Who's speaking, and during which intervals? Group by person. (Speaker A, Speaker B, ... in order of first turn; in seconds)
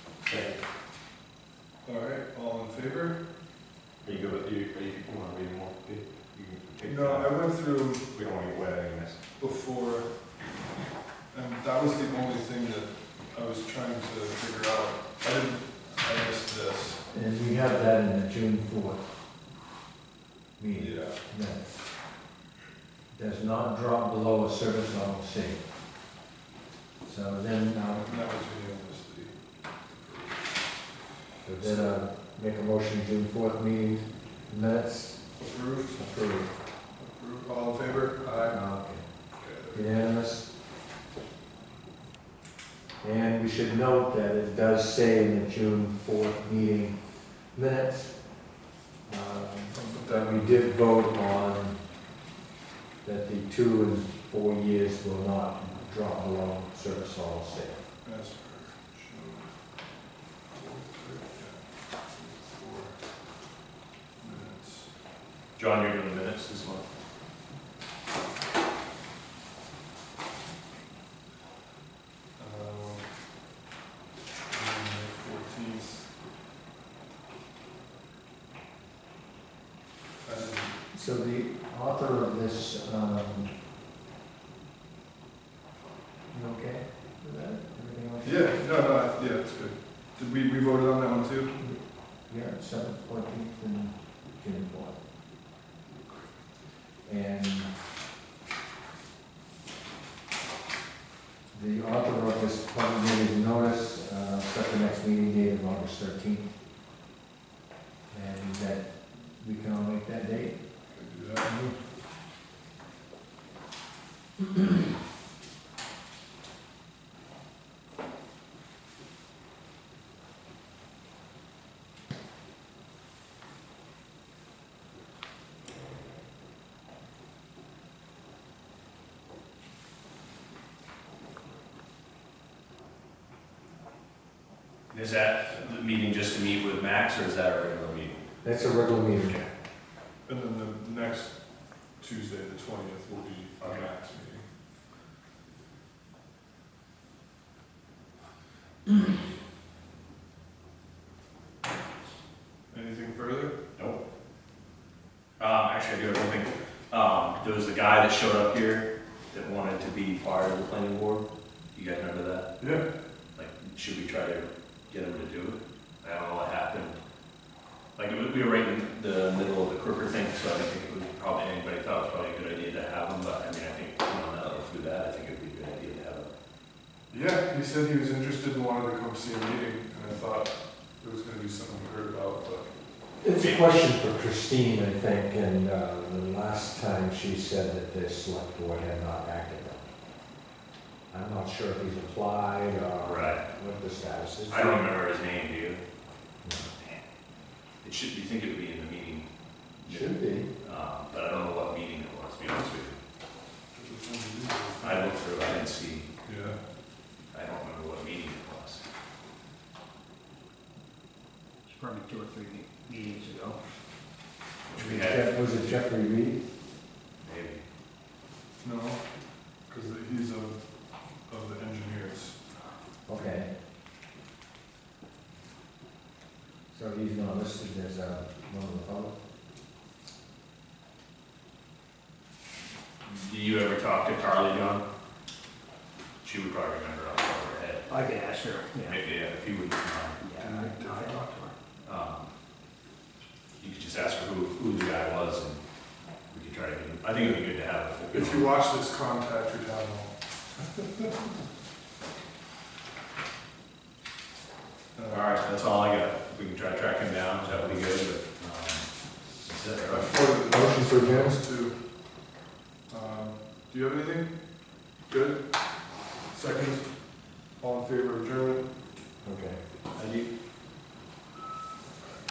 Speaker A: 0.3-0.5, 4.1-7.1, 8.2-9.1, 211.7-213.6, 237.9-239.0, 240.2-241.5
Speaker B: 1.8-3.2, 6.8-8.2, 9.4-10.1, 11.3-17.0, 20.7-21.2, 27.9-30.6, 31.6-32.0, 35.4-36.0, 37.0-38.8, 39.3-39.9, 49.7-50.5, 58.0-59.5, 60.5-63.0, 64.2-64.9, 72.3-73.1, 74.5-76.1, 80.2-80.8, 88.2-91.5, 110.9-111.7, 140.2-141.3, 142.0-144.4, 152.7-153.6, 162.6-162.9, 177.1-182.7, 203.7-205.2, 206.2-206.6, 218.6-219.0, 219.7-220.6, 221.2-222.4, 240.4-241.2, 248.1-250.1, 250.8-251.1, 254.9-255.3, 259.9-261.8, 262.9-264.3, 265.1-265.5, 266.3-266.9, 267.6-268.7
Speaker C: 4.0-5.7, 6.4-7.2, 8.2-9.1, 65.5-66.8, 134.9-138.2, 155.4-162.5, 163.3-167.0, 167.9-176.3, 183.3-183.7, 193.0-193.4, 194.5-195.8, 197.8-199.2, 199.8-202.9, 204.8-206.1, 207.3-208.8, 214.7-215.8, 217.2-217.6, 233.0-234.8, 236.2-237.9, 238.8-240.2, 241.8-242.3, 243.6-245.6, 246.3-248.5, 255.1-258.9, 259.4-260.3, 269.9-270.3
Speaker D: 17.1-19.0, 20.6-21.7, 23.1-25.6, 27.0-28.0, 31.4-35.3, 35.9-36.5, 38.4-39.1, 39.7-40.5, 43.0-47.0, 47.5-48.2, 49.0-51.8, 53.0-57.8, 80.9-83.5, 86.3-88.7, 91.6-95.0, 97.0-97.7, 101.5-106.5, 108.1-110.5, 138.4-139.4, 183.2-189.8, 191.1-194.9, 196.4-196.7, 199.8-200.5, 214.7-216.4, 223.1-223.5, 226.7-229.1, 260.5-261.4, 269.2-269.6